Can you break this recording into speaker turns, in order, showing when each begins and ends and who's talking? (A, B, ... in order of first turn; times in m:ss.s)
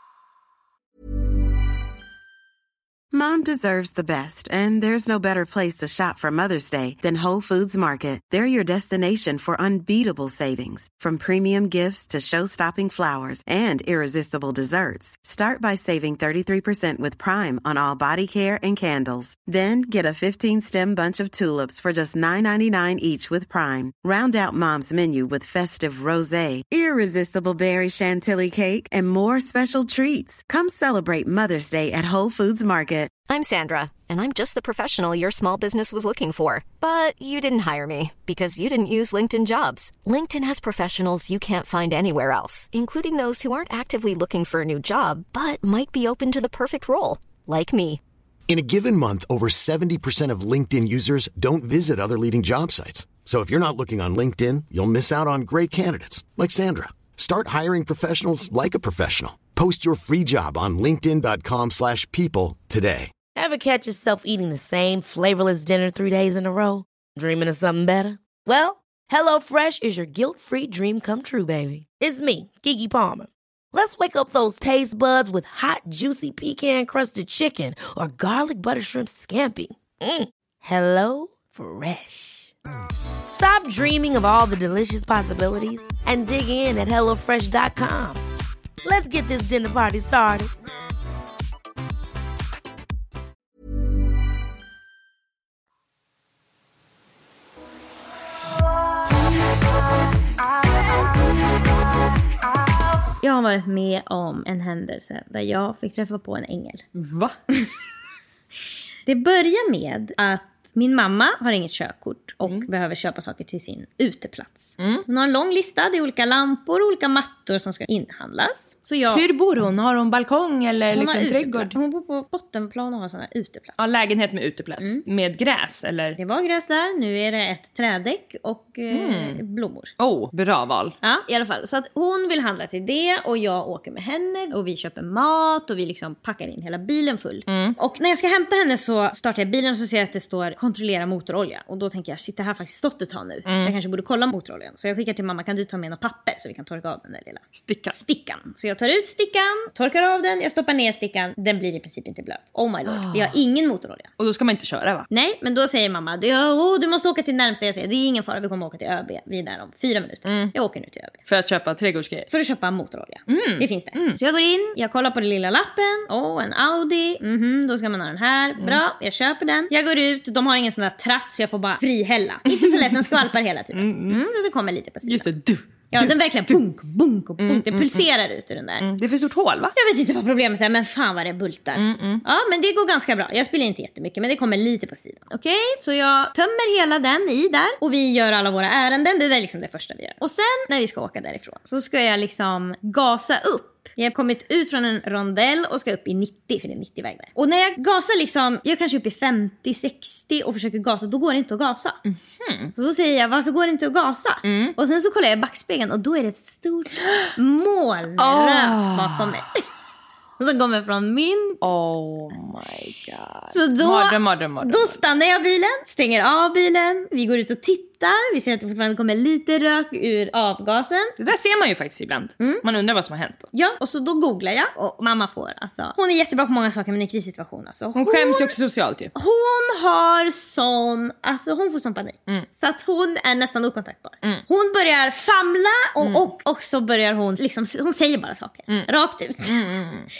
0:03.1-0:33.1 A
0:33.3-0:48.0 B
0:48.5-1:03.1 C
1:03.3-1:22.5 D
1:23.3-1:28.2 D
1:28.8-1:30.5 D
1:43.2-1:46.8 E
1:46.9-1:47.3 F
1:49.0-1:59.2 E
1:54.8-1:55.0 F
1:59.1-2:01.7 F
2:00.9-2:03.7 E
2:03.8-2:06.2 F
2:06.2-2:09.9 E
2:08.9-2:09.4 F
2:10.0-2:10.9 F
2:11.0-2:34.1 E
2:17.5-2:17.8 F
2:23.4-2:23.7 F
2:27.6-2:28.0 F
2:32.9-2:33.4 F
2:34.2-2:35.1 F
2:35.1-2:41.2 E
2:40.2-2:40.5 F
2:41.2-2:42.3 F
2:42.3-2:55.2 E
2:43.3-2:44.2 F
2:52.5-2:53.2 F
2:53.7-2:54.2 F
2:55.0-2:56.6 F
2:55.9-2:58.9 E
2:57.4-2:58.0 F
2:58.8-2:59.7 F
2:59.7-3:22.0 E
3:01.8-3:02.2 F
3:22.0-3:22.7 F
3:22.7-3:29.6 E
3:24.4-3:24.7 F
3:28.2-3:29.2 F
3:30.4-3:31.6 E
3:31.6-3:35.0 F
3:33.5-3:41.2 E
3:41.2-3:43.5 F
3:43.5-3:48.5 E
3:48.0-3:49.1 F
3:49.1-3:59.5 E
3:59.4-4:00.1 F